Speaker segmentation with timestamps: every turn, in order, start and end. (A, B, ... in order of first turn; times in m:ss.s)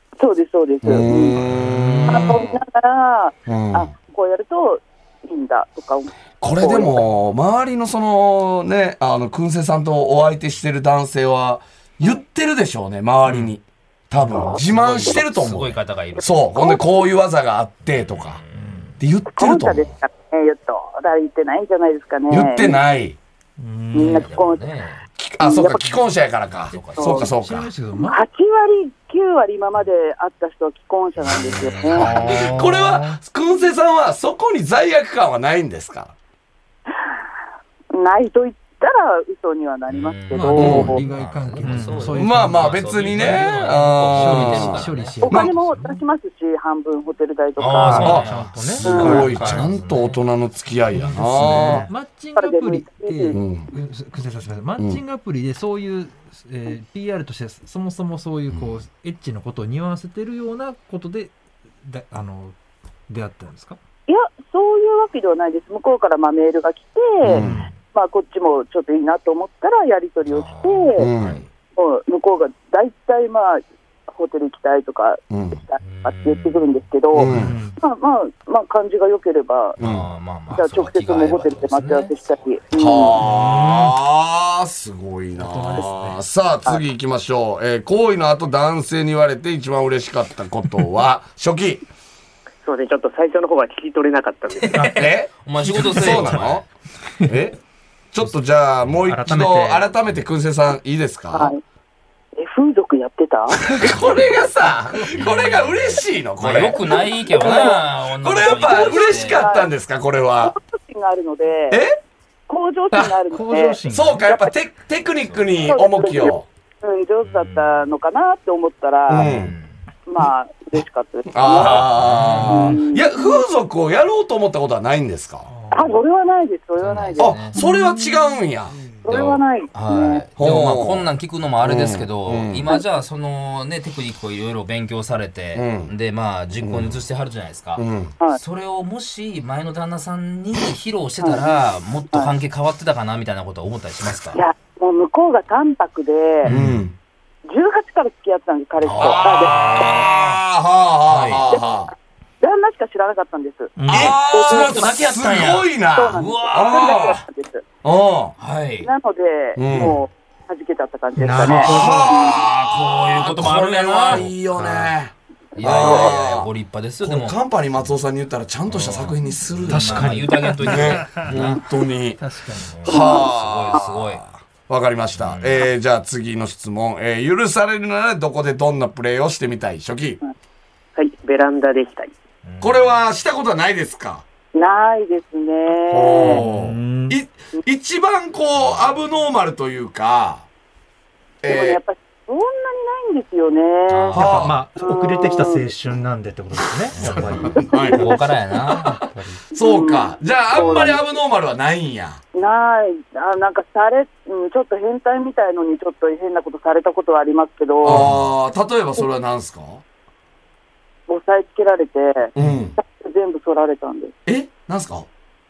0:00.2-0:01.4 A
0:00.8-0:02.6 B
0:01.5-0:02.3 C
0:01.5-0:02.0 D
0:02.1-0:07.0 A
0:03.5-0:03.9 B
0:06.4-0:18.4 B
0:13.3-0:13.5 C
0:14.4-0:16.5 C
0:16.6-0:17.0 A
0:17.9-0:19.0 C
0:18.6-0:18.9 D
0:19.0-0:19.9 B
0:19.3-0:22.7 A
0:22.3-0:23.2 B
0:23.6-0:24.3 E
0:23.9-0:24.6 A
0:23.9-0:25.0 C
0:25.2-0:27.7 B
0:25.4-0:25.9 A
0:26.5-0:27.2 C
0:27.0-0:27.3 A
0:27.0-0:28.2 D
0:28.0-0:32.1 A
0:31.2-0:32.7 C
0:31.9-0:36.1 B
0:32.0-0:33.2 E
0:37.9-0:41.0 A
0:39.9-0:45.2 C
0:40.4-0:46.0 D
0:40.6-0:41.0 B
0:41.6-0:42.2 E
0:42.2-0:45.5 B
0:45.2-0:48.2 A
0:47.6-0:50.2 C
0:47.8-0:49.7 E
0:47.9-0:51.9 B
0:48.8-0:49.3 A
0:50.9-0:51.9 E
0:51.5-1:02.6 D
0:52.4-0:53.4 A
0:53.3-0:53.7 B
1:03.1-1:03.8 D
1:04.1-1:11.1 A
1:07.2-1:07.7 B
1:10.3-1:11.5 C
1:11.0-1:11.4 B
1:11.8-1:17.3 A
1:15.3-1:15.6 B
1:15.8-1:17.4 C
1:17.1-1:17.6 B
1:17.3-1:17.8 E
1:17.8-1:19.8 A
1:19.8-1:22.4 C
1:19.8-1:20.1 B
1:20.5-1:23.2 A
1:22.8-1:31.8 B
1:23.2-1:24.0 E
1:25.4-1:26.2 D
1:32.6-1:34.9 F
1:34.6-1:36.7 C
1:35.0-1:36.6 B
1:35.6-1:36.4 E
1:37.2-1:37.6 B
1:38.1-1:41.5 B
1:39.0-1:39.8 E
1:41.3-1:41.6 A
1:42.4-1:43.7 A
1:43.7-1:50.6 B
1:43.9-1:44.2 C
1:45.1-1:49.5 C
1:46.9-1:47.8 A
1:48.4-1:49.7 A
1:50.4-1:51.8 A
1:51.7-1:52.0 B
1:52.5-1:54.5 A
1:53.3-1:54.3 E
1:53.9-1:56.5 B
1:55.2-1:55.7 C
1:55.7-1:59.3 A
1:57.2-1:57.9 C
1:59.1-1:59.5 B
1:59.2-1:59.8 C
2:00.1-2:01.9 A
2:01.3-2:05.5 B
2:01.6-2:02.8 C
2:02.4-2:03.4 A
2:05.5-2:06.0 D
2:05.7-2:07.4 A
2:06.8-2:07.6 C
2:07.2-2:09.4 B
2:09.0-2:10.2 A
2:09.7-2:24.4 C
2:10.4-2:11.1 B
2:11.6-2:12.7 B
2:15.6-2:15.9 B
2:16.6-2:17.0 B
2:17.8-2:18.1 B
2:21.2-2:21.5 A
2:24.3-2:26.5 A
2:26.4-2:26.8 C
2:26.5-2:27.0 B
2:27.5-2:30.0 A
2:28.8-2:30.4 C
2:28.9-2:31.9 B
2:31.1-2:31.4 C
2:32.4-2:34.9 A
2:33.8-2:34.2 E
2:33.9-2:37.2 B
2:33.9-2:37.2 C
2:35.9-2:37.6 A
2:37.8-2:38.4 B
2:38.4-2:38.9 C
2:38.8-2:42.4 A
2:39.6-2:40.0 B
2:41.2-2:42.2 E
2:41.4-2:46.5 B
2:41.7-2:44.9 C
2:45.6-2:47.4 C
2:45.6-2:46.1 A
2:47.0-2:52.2 B
2:48.7-2:51.6 C
2:49.7-2:50.9 E
2:50.8-2:51.3 D
2:52.2-2:52.9 D
2:52.7-2:54.2 C
2:52.8-3:00.2 B
2:52.9-2:53.3 A
2:55.2-2:55.7 C
3:01.0-3:02.1 F
3:02.4-3:03.0 C
3:02.6-3:04.2 B
3:04.6-3:06.4 A
3:05.9-3:10.4 B
3:06.2-3:07.2 E
3:08.6-3:09.0 C
3:11.4-3:11.8 B
3:11.4-3:14.3 A
3:13.9-3:14.6 C
3:14.1-3:14.6 B
3:14.2-3:18.1 E
3:14.8-3:15.7 A
3:16.9-3:19.0 B
3:16.9-3:19.0 C
3:17.6-3:18.0 A
3:18.9-3:19.4 E
3:19.5-3:22.2 B
3:19.5-3:21.2 A
3:22.3-3:28.0 A
3:27.8-3:29.8 B
3:27.9-3:28.3 C
3:31.1-3:34.2 A
3:32.4-3:32.8 B
3:34.3-3:35.1 B